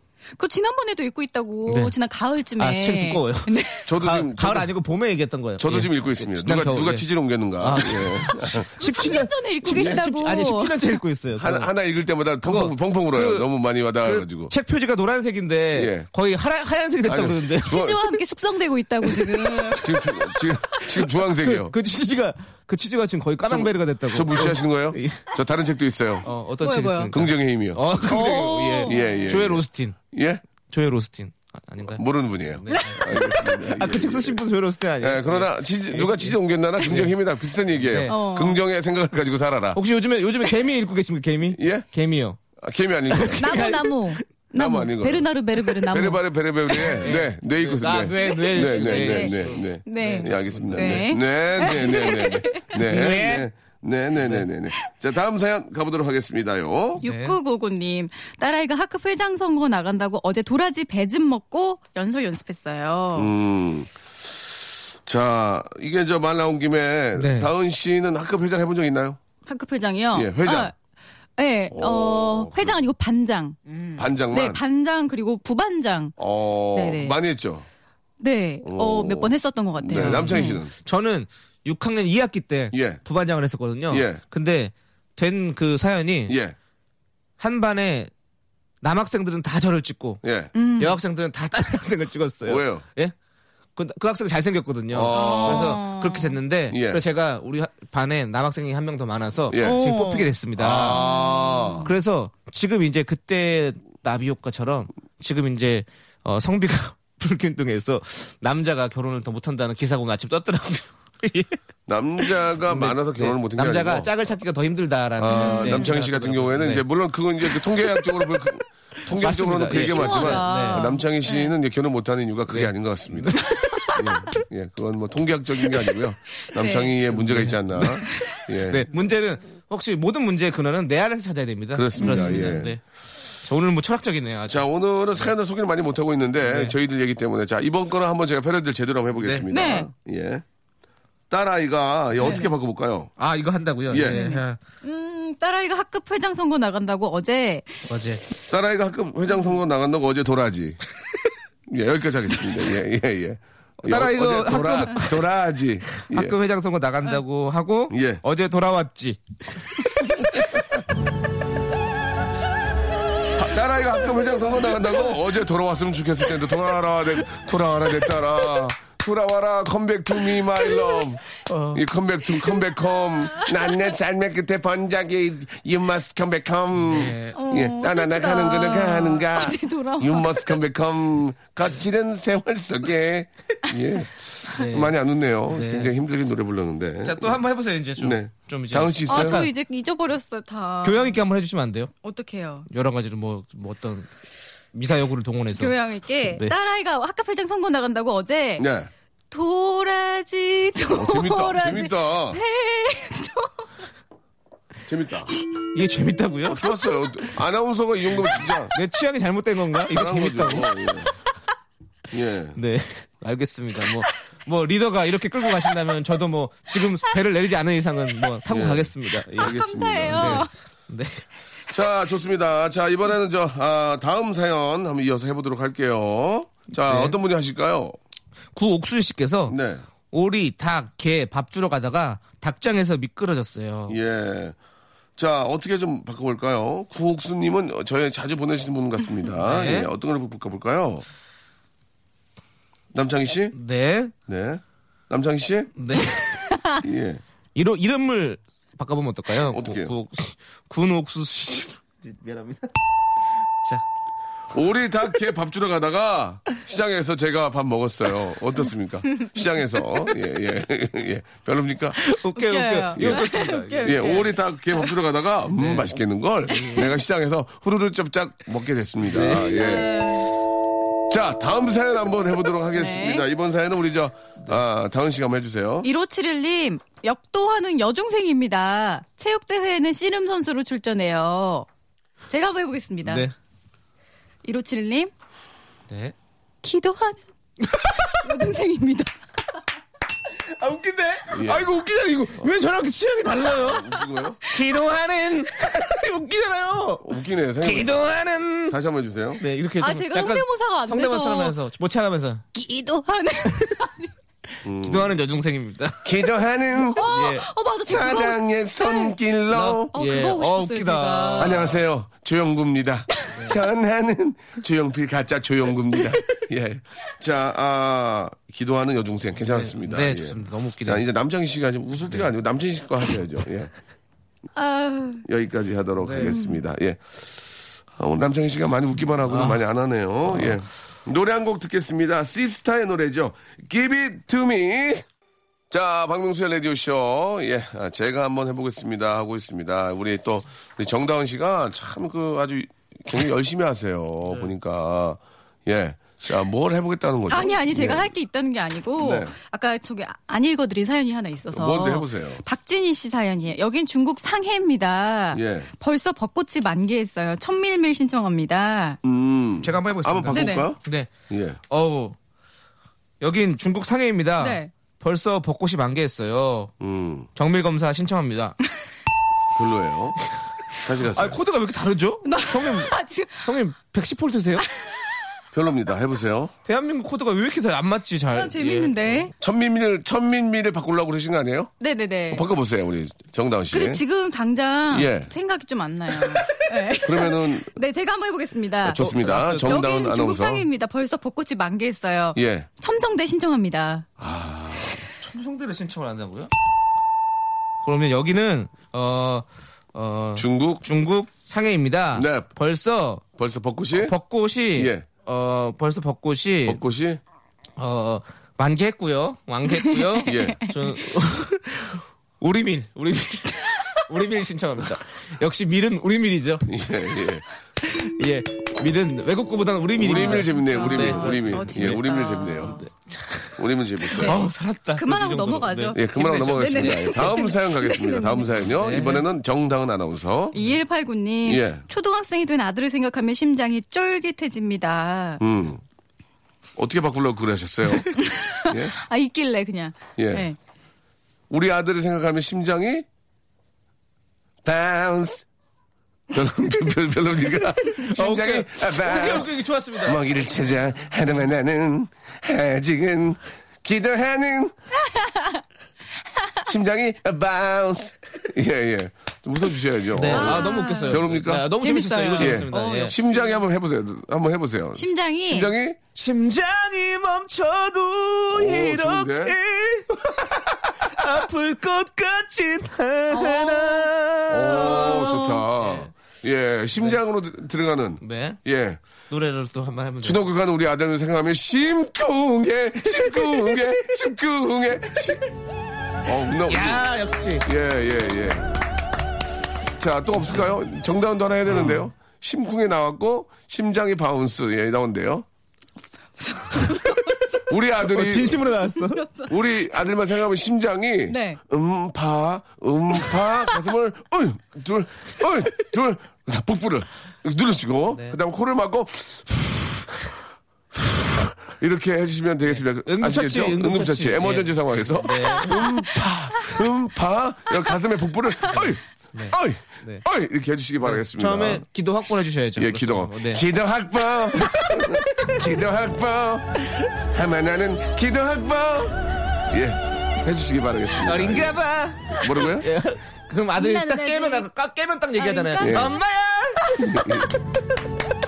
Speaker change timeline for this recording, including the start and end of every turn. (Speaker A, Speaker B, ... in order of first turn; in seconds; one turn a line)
Speaker A: 0.4-3.9
Speaker B: 1.7-1.9
Speaker B: 2.6-7.1
Speaker C: 3.9-4.7
Speaker C: 5.6-8.7
Speaker B: 7.6-11.7
Speaker A: 8.8-10.8
Speaker C: 9.7-10.0
Speaker C: 11.4-14.5
Speaker B: 12.4-13.5
Speaker B: 14.0-17.8
Speaker C: 15.7-16.1
Speaker C: 17.1-18.0
Speaker A: 17.6-20.1
Speaker C: 19.7-21.7
Speaker B: 20.7-25.2
Speaker C: 23.5-26.3
Speaker B: 26.2-30.0
Speaker A: 26.6-27.1
Speaker C: 27.1-27.8
Speaker A: 28.1-29.3
Speaker C: 28.9-30.4
Speaker B: 30.7-37.2
Speaker C: 31.9-34.4
Speaker C: 35.0-39.8
Speaker B: 37.8-38.2
Speaker A: 38.1-38.6
Speaker B: 39.8-42.4
Speaker C: 41.5-41.9
Speaker C: 42.6-43.6
Speaker B: 43.1-44.2
Speaker A: 43.4-46.2
Speaker C: 44.5-45.3
Speaker C: 45.9-57.0
Speaker B: 46.8-52.1
Speaker A: 48.3-52.8
Speaker B: 52.7-53.5
Speaker B: 54.2-54.5
Speaker A: 57.0-63.3
Speaker B: 57.0-57.4
Speaker C: 63.1-69.2
Speaker B: 67.2-67.5
Speaker A: 69.5-70.7
Speaker C: 70.1-70.7
Speaker A: 71.4-73.6
Speaker C: 71.7-72.8
Speaker B: 73.7-74.0
Speaker C: 74.0-74.6
Speaker A: 74.3-76.2
Speaker C: 76.2-77.7
Speaker A: 76.7-77.2
Speaker A: 78.2-80.6
Speaker C: 78.6-80.7
Speaker B: 80.0-86.4
Speaker C: 82.7-83.0
Speaker C: 83.9-84.2
Speaker C: 86.3-86.6
Speaker B: 87.4-88.1
Speaker B: 88.8-90.2
Speaker C: 90.2-90.5
Speaker A: 90.5-91.0
Speaker B: 90.8-93.1
Speaker C: 92.5-92.8
Speaker B: 93.8-101.0
Speaker C: 94.9-95.8
Speaker A: 95.1-96.4
Speaker C: 96.7-97.0
Speaker C: 99.5-99.8
Speaker A: 99.6-100.3
Speaker C: 100.6-101.9
Speaker A: 100.9-101.9
Speaker B: 101.8-111.6
Speaker C: 111.9-114.1
Speaker B: 112.2-116.8
Speaker C: 115.2-128.9
Speaker A: 115.3-116.0
Speaker B: 119.1-120.9
Speaker A: 119.7-121.5
Speaker B: 122.5-124.3
Speaker A: 126.5-127.0
Speaker B: 127.1-128.1
Speaker B: 128.7-132.8
Speaker C: 131.7-132.7
Speaker A: 132.0-132.5
Speaker B: 133.4-134.7
Speaker C: 134.5-140.4
Speaker B: 136.4-136.8
Speaker B: 139.2-139.5
Speaker A: 139.5-139.9
Speaker C: 141.3-143.1
Speaker A: 142.2-142.5
Speaker B: 143.2-144.6
Speaker C: 143.9-144.2
Speaker A: 144.0-147.9
Speaker B: 147.9-148.2
Speaker C: 148.5-150.8
Speaker C: 151.7-156.3
Speaker B: 153.8-155.3
Speaker B: 155.9-160.4
Speaker C: 157.9-158.2
Speaker C: 163.4-187.4
Speaker A: 170.8-171.0
Speaker B: 171.5-171.8
Speaker A: 173.5-173.7
Speaker B: 176.8-177.4
Speaker A: 177.3-180.6
Speaker B: 184.5-184.9
Speaker B: 185.5-185.9
Speaker B: 187.0-189.5
Speaker C: 188.0-189.5
Speaker A: 189.1-191.2
Speaker B: 190.8-191.9
Speaker A: 192.0-192.7
Speaker B: 192.7-194.1
Speaker B: 194.7-195.7
Speaker A: 195.6-198.7
Speaker C: 198.6-198.9
Speaker A: 199.3-203.7
Speaker C: 200.9-202.4
Speaker C: 204.9-205.3
Speaker B: 205.7-206.6
Speaker C: 206.5-208.7
Speaker B: 208.7-210.8
Speaker C: 209.9-211.1
Speaker C: 212.1-212.6
Speaker B: 212.6-219.6
Speaker C: 218.5-220.5
Speaker A: 219.4-220.5
Speaker B: 220.1-221.2
Speaker C: 221.7-228.0
Speaker B: 226.8-227.2
Speaker B: 228.6-229.6
Speaker C: 229.5-229.8
Speaker B: 230.1-234.0
Speaker C: 233.9-234.6
Speaker C: 235.2-241.1
Speaker B: 239.4-239.9
Speaker C: 242.9-243.6
Speaker B: 243.5-244.1
Speaker C: 244.3-245.7
Speaker B: 245.8-246.6
Speaker C: 246.8-247.2
Speaker B: 247.6-252.7
Speaker C: 249.5-249.9
Speaker C: 254.5-262.0
Speaker B: 262.0-264.0
Speaker A: 262.4-264.9
Speaker C: 263.0-263.3
Speaker C: 263.8-269.9
Speaker B: 265.6-265.9
Speaker B: 266.5-266.9
Speaker B: 269.1-269.7
Speaker A: 269.4-270.3
Speaker C: 271.1-275.9
Speaker A: 272.7-273.3
Speaker A: 275.8-281.7
Speaker A: 282.3-283.3
Speaker B: 283.1-283.3
Speaker A: 284.4-285.1
Speaker B: 285.9-286.1
Speaker A: 286.6-287.2
Speaker B: 287.7-288.1
Speaker A: 288.0-289.1
Speaker B: 290.5-294.0
Speaker C: 291.3-291.7
Speaker C: 293.5-294.4
Speaker B: 294.5-297.0
Speaker C: 297.0-298.1
Speaker B: 297.6-298.8
Speaker C: 298.7-299.4
Speaker B: 299.4-302.4
Speaker A: 299.8-301.6
Speaker A: 302.6-304.1
Speaker B: 303.5-303.7
Speaker C: 304.6-305.1
Speaker B: 304.8-306.1
Speaker C: 306.0-307.1
Speaker A: 306.9-309.2
Speaker B: 307.0-307.5
Speaker C: 307.9-309.9
Speaker B: 309.5-311.8
Speaker A: 309.9-311.7
Speaker C: 311.4-323.7
Speaker B: 313.3-313.6
Speaker B: 319.4-321.0
Speaker A: 324.6-325.2
Speaker C: 325.2-335.1
Speaker B: 326.0-326.4
Speaker A: 326.2-326.6
Speaker B: 329.3-329.6
Speaker B: 330.3-330.6
Speaker C: 335.7-348.1
Speaker A: 347.3-359.0
Speaker C: 349.0-349.3
Speaker C: 351.5-352.4
Speaker C: 355.3-355.7
Speaker C: 359.0-360.8
Speaker B: 359.6-361.1
Speaker A: 360.3-360.7
Speaker C: 361.3-361.6
Speaker B: 361.7-362.2
Speaker B: 363.2-366.7
Speaker A: 364.4-364.7
Speaker C: 366.8-367.3
Speaker B: 367.4-368.6
Speaker C: 369.5-370.2
Speaker C: 370.8-371.4
Speaker B: 371.1-374.7
Speaker A: 372.3-373.5
Speaker C: 375.5-376.5
Speaker B: 376.7-379.3
Speaker A: 378.3-379.3
Speaker C: 379.4-381.7
Speaker A: 381.8-382.5
Speaker C: 382.3-384.0
Speaker A: 383.7-394.1
Speaker C: 384.9-385.3
Speaker C: 387.0-387.7
Speaker C: 388.9-390.7
Speaker B: 389.0-389.8
Speaker C: 392.4-392.7
Speaker C: 394.2-395.0
Speaker B: 395.2-396.5
Speaker B: 397.8-403.2
Speaker C: 400.4-400.8
Speaker C: 402.1-402.5
Speaker C: 403.4-404.1
Speaker B: 404.0-406.8
Speaker C: 404.7-405.1
Speaker C: 406.6-407.2
Speaker B: 407.8-416.7
Speaker A: 409.9-410.7
Speaker C: 410.2-410.7
Speaker C: 416.7-417.4
Speaker B: 417.9-426.9
Speaker C: 420.0-422.8
Speaker A: 420.1-422.8
Speaker C: 423.6-424.4
Speaker A: 424.1-428.6
Speaker C: 425.9-430.6
Speaker B: 428.6-429.3
Speaker A: 430.5-435.4
Speaker C: 431.5-431.8
Speaker C: 435.4-435.8
Speaker C: 436.8-438.9
Speaker A: 438.1-440.6
Speaker C: 440.2-440.5
Speaker C: 441.5-443.1
Speaker C: 444.6-445.5
Speaker C: 446.3-454.8
Speaker B: 447.9-450.2
Speaker C: 456.6-461.7
Speaker B: 460.1-463.1
Speaker A: 460.3-463.6
Speaker C: 462.4-466.0
Speaker A: 465.0-465.7
Speaker B: 466.1-475.1
Speaker C: 468.5-469.6
Speaker A: 473.3-474.1
Speaker C: 474.5-479.0
Speaker A: 474.7-475.6
Speaker B: 475.8-476.1
Speaker B: 478.2-478.6
Speaker B: 479.3-480.5
Speaker C: 480.2-485.4
Speaker B: 483.3-483.8
Speaker C: 486.2-487.0
Speaker B: 486.7-487.7
Speaker C: 487.6-488.6
Speaker C: 489.9-495.5
Speaker B: 491.7-492.1
Speaker A: 496.4-497.4
Speaker C: 497.7-498.6
Speaker B: 498.0-499.2
Speaker A: 498.8-499.6
Speaker C: 499.5-510.4
Speaker A: 501.3-501.6
Speaker B: 508.1-508.4
Speaker C: 510.9-521.9
Speaker B: 512.7-515.9
Speaker B: 518.7-520.2
Speaker B: 521.0-523.6
Speaker C: 522.8-531.8
Speaker B: 524.7-525.5
Speaker B: 531.2-537.0
Speaker C: 532.3-532.9
Speaker A: 533.8-534.7
Speaker A: 535.4-536.1
Speaker C: 535.8-536.1
Speaker C: 537.0-537.6